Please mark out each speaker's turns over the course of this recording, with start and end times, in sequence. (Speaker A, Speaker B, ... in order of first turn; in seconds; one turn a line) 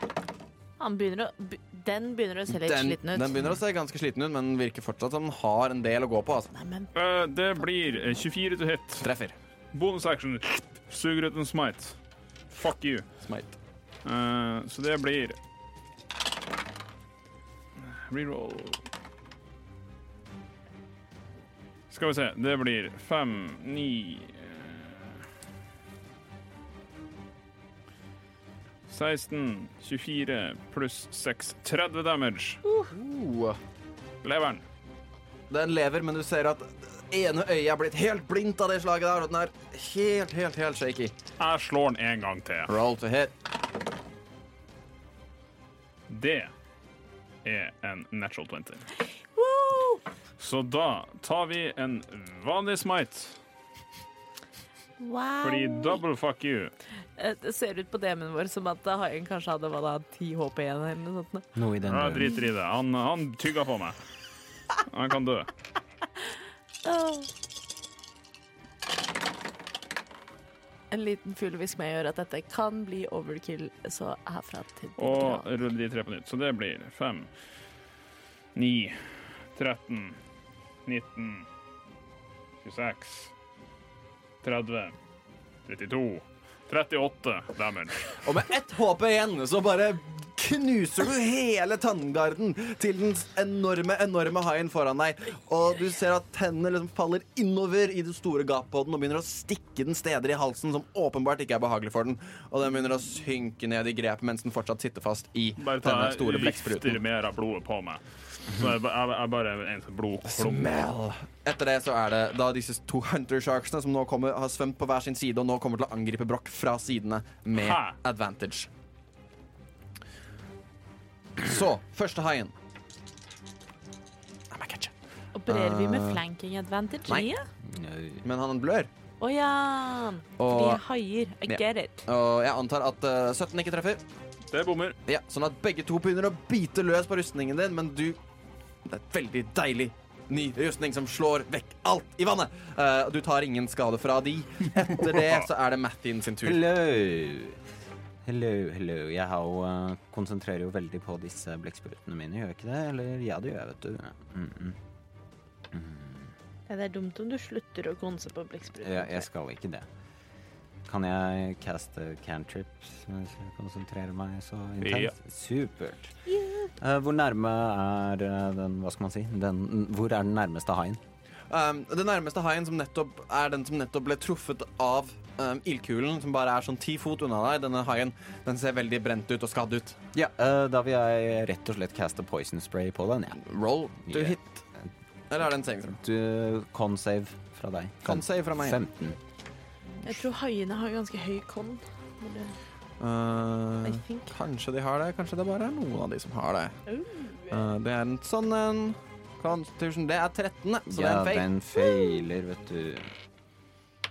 Speaker A: 0.8-3.3
Speaker B: 2.5-6.5
Speaker A: 6.5-6.9
Speaker C: 6.9-9.1
Speaker B: 9.0-9.3
Speaker C: 9.7-11.9
Speaker C: 12.5-13.1
Speaker B: 13.2-13.6
Speaker C: 14.0-15.4
Speaker C: 17.8-18.8
Speaker C: 21.9-25.1
Speaker C: 28.9-32.6
Speaker A: 32.6-32.9
Speaker B: 32.9-33.6
Speaker C: 34.2-34.6
Speaker B: 35.5-41.1
Speaker C: 41.4-42.7
Speaker B: 42.7-43.3
Speaker C: 46.1-46.5
Speaker C: 47.4-48.9
Speaker A: 49.3-50.0
Speaker C: 50.4-53.4
Speaker A: 55.0-56.0
Speaker C: 55.4-56.7
Speaker A: 57.2-61.5
Speaker D: 61.5-62.3
Speaker C: 61.8-64.0
Speaker C: 64.9-65.5
Speaker A: 66.8-67.3
Speaker A: 70.9-75.4
Speaker C: 75.0-77.3
Speaker C: 78.5-79.0
Speaker C: 79.5-80.2
Speaker C: 80.8-81.5
Speaker C: 82.6-83.3
Speaker C: 84.4-84.9
Speaker C: 85.7-88.2
Speaker B: 88.2-107.0
Speaker C: 105.6-110.7
Speaker B: 110.2-118.7
Speaker C: 117.5-118.0
Speaker B: 121.4-122.5
Speaker B: 124.5-124.9
Speaker A: 125.3-127.5
Speaker B: 125.5-126.2
Speaker D: 127.6-128.2
Speaker B: 128.2-128.9
Speaker A: 129.2-132.0
Speaker B: 130.4-130.8
Speaker B: 131.4-134.0
Speaker C: 134.5-135.0
Speaker B: 135.1-138.2
Speaker B: 138.8-146.6
Speaker D: 146.4-147.6
Speaker D: 148.2-154.8
Speaker D: 155.7-156.3
Speaker A: 156.7-159.2
Speaker D: 158.8-159.9
Speaker D: 160.8-166.1
Speaker C: 164.8-165.1
Speaker A: 166.3-166.7
Speaker D: 166.8-171.0
Speaker B: 171.5-180.0
Speaker D: 180.1-183.4
Speaker B: 183.4-184.6
Speaker D: 184.1-184.3
Speaker B: 185.3-186.0
Speaker D: 186.0-189.2
Speaker B: 188.0-188.8
Speaker A: 190.0-192.6
Speaker B: 193.0-196.8
Speaker A: 193.8-194.3
Speaker A: 196.9-197.6
Speaker B: 197.5-201.5
Speaker D: 200.9-203.1
Speaker A: 201.8-202.2